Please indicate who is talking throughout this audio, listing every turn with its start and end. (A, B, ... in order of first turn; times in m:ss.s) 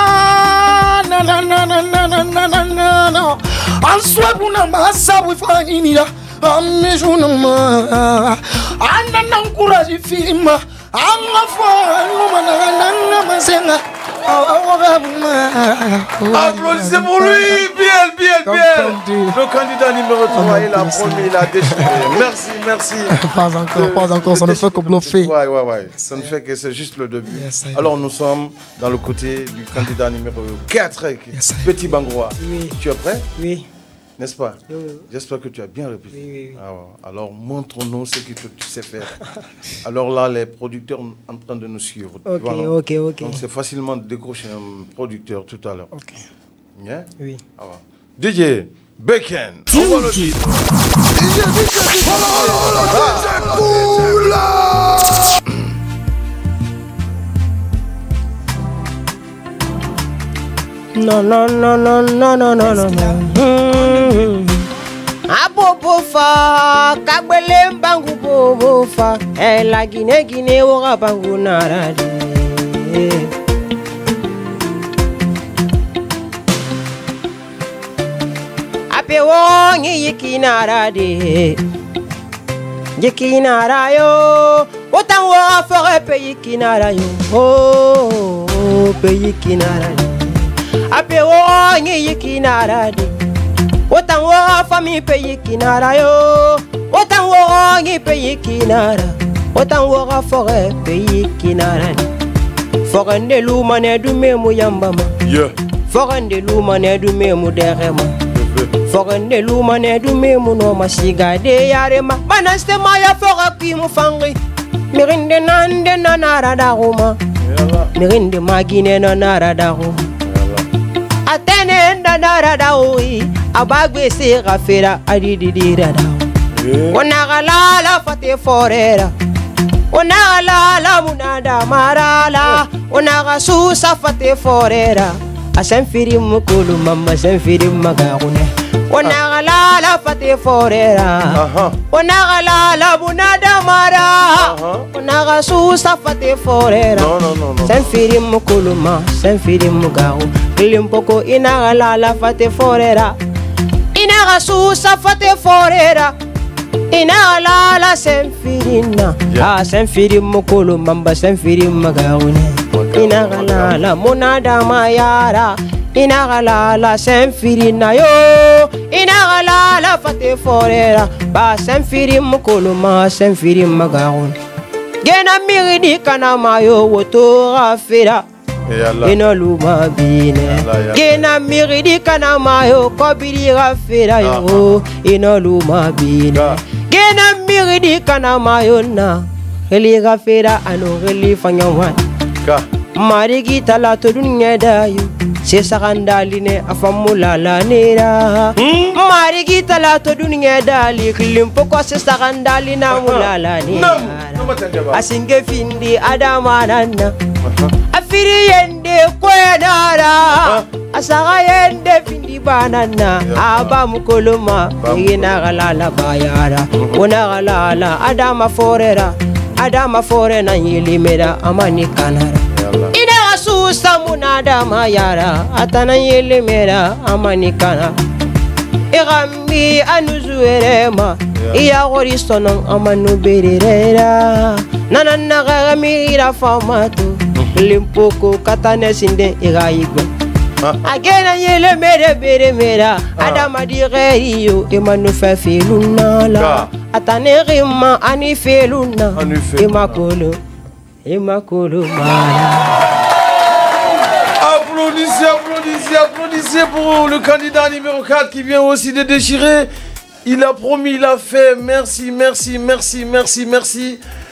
0:00.8-0:03.0 A
0:01.2-0:17.6 B
0:16.3-0:23.2 C
0:18.4-0:19.4 B
0:20.3-0:22.2 B
0:23.1-0:25.3 B
0:23.7-0:33.2 C
0:25.9-0:26.3 B
0:27.3-0:27.9 B
0:31.3-0:31.7 B
0:32.4-0:32.8 A
0:33.4-0:33.6 A
0:34.2-0:34.6 C
0:34.7-0:35.0 A
0:35.1-0:39.2 C
0:36.1-0:36.6 A
0:39.8-0:45.9 C
0:42.2-0:43.4 A
0:45.9-0:46.2 A
0:46.8-0:50.8 C
0:51.4-0:52.7 B
0:52.0-0:55.1 C
1:00.9-1:04.6 A
1:05.3-1:13.3 A
1:18.9-1:21.6 A
1:23.0-1:33.1 A
1:33.9-1:42.1 A
1:42.8-1:45.1 A
1:45.2-1:45.5 C
1:45.9-1:48.1 A
1:48.3-1:48.7 C
1:48.8-1:54.4 A
1:54.9-1:57.2 A
1:57.4-1:57.9 C
1:57.9-2:00.0 A
2:00.2-2:00.6 C
2:01.2-2:06.3 A
2:06.6-2:07.0 C
2:06.9-2:09.1 A
2:09.9-2:21.4 A
2:21.3-2:21.8 C
2:21.9-2:33.2 A
2:24.4-2:24.8 C
2:27.0-2:27.9 C
2:33.9-2:36.1 A
2:36.9-2:54.4 A
2:42.7-2:43.8 C
2:55.0-2:58.2 A
2:58.7-2:59.2 C
2:59.0-3:12.0 A
3:00.4-3:01.3 C
3:04.2-3:04.7 C
3:13.0-3:27.1 A
3:18.6-3:19.0 C
3:22.9-3:25.0 C
3:27.5-3:27.7 C
3:27.9-3:42.4 A
3:33.2-3:33.8 C
3:34.8-3:35.6 C
3:42.5-3:42.9 C
3:42.9-3:47.9 A
3:48.9-4:00.1 A
3:51.4-3:51.6 C
4:00.8-4:10.4 A
4:03.2-4:03.5 C
4:06.3-4:06.7 C
4:09.1-4:10.0 C
4:11.0-4:12.8 A
4:14.4-4:19.7 C
4:20.2-4:24.0 C